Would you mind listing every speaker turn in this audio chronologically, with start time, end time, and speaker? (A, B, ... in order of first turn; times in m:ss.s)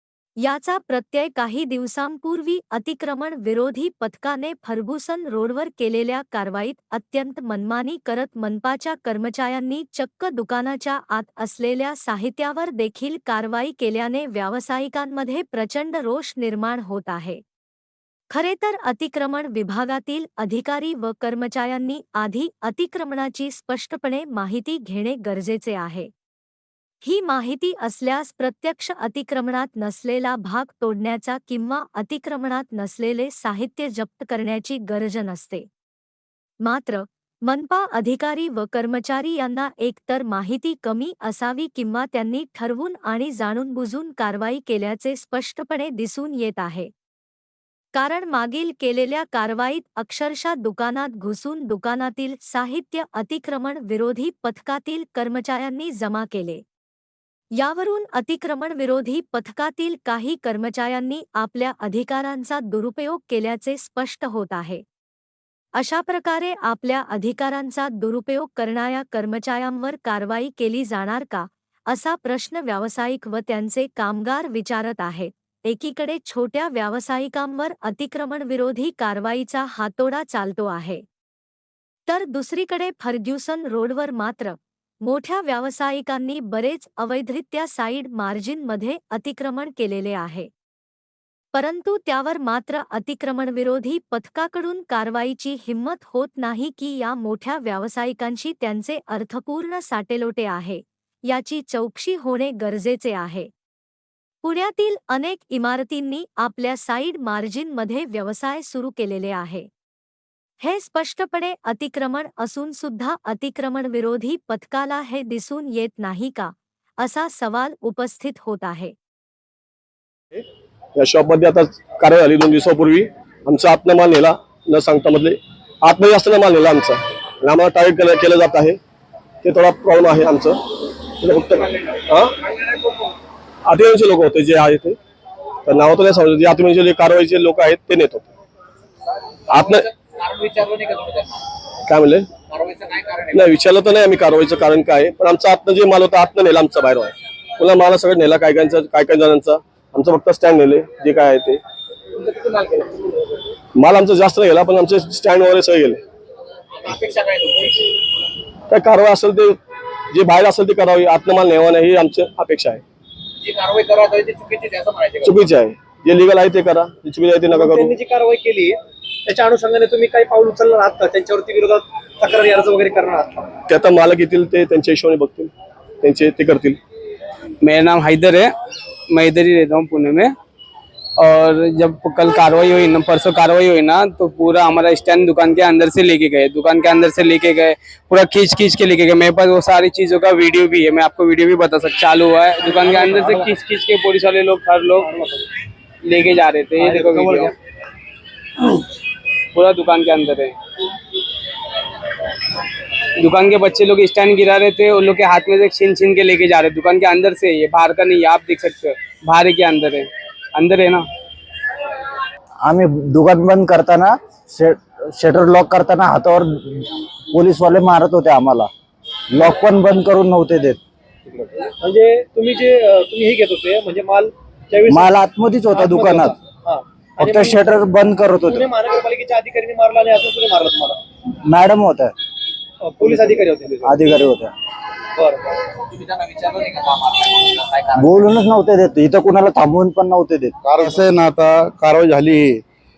0:00.4-0:17.4 A
0:18.3-0:26.1 A
0:27.0-0:35.7 A
0:36.6-0:46.9 A
0:47.9-0:56.6 A
0:57.5-1:04.8 A
1:05.8-1:21.0 A
1:22.1-1:30.5 A
1:31.5-1:43.5 A
1:44.4-1:49.7 A
1:50.6-1:58.9 A
2:01.0-2:08.8 B
2:09.4-2:10.6 B
2:11.1-2:12.4 B
2:13.6-2:15.0 B
2:15.6-2:18.3 B
2:19.5-2:19.8 B
2:19.6-2:21.4 C
2:21.8-2:22.3 B
2:22.5-2:23.5 C
2:23.3-2:31.6 B
2:32.2-2:33.1 C
2:33.7-2:36.0 B
2:36.8-2:37.8 C
2:38.7-2:39.6 B
2:40.1-2:42.8 B
2:43.4-2:45.4 C
2:45.2-2:47.9 B
2:47.5-2:53.5 D
2:53.7-2:56.8 B
2:57.6-2:58.5 E
2:59.1-3:00.3 E
3:01.2-3:15.1 E
3:12.6-3:13.5 D
3:15.0-3:15.4 D
3:16.0-3:17.5 E
3:16.8-3:17.5 D
3:19.5-3:20.5 E
3:23.2-3:31.0 E
3:32.6-3:38.7 F
3:39.3-3:40.8 F
3:41.8-3:45.2 D
3:44.9-3:46.3 F
3:45.7-3:47.8 D
3:47.2-3:48.6 F
3:48.4-3:51.0 D
3:51.4-3:52.1 F
3:52.8-3:54.1 D
3:53.8-3:54.5 F
3:55.2-3:55.5 D
3:55.8-3:58.2 C
3:58.0-4:00.6 F
4:00.6-4:02.6 G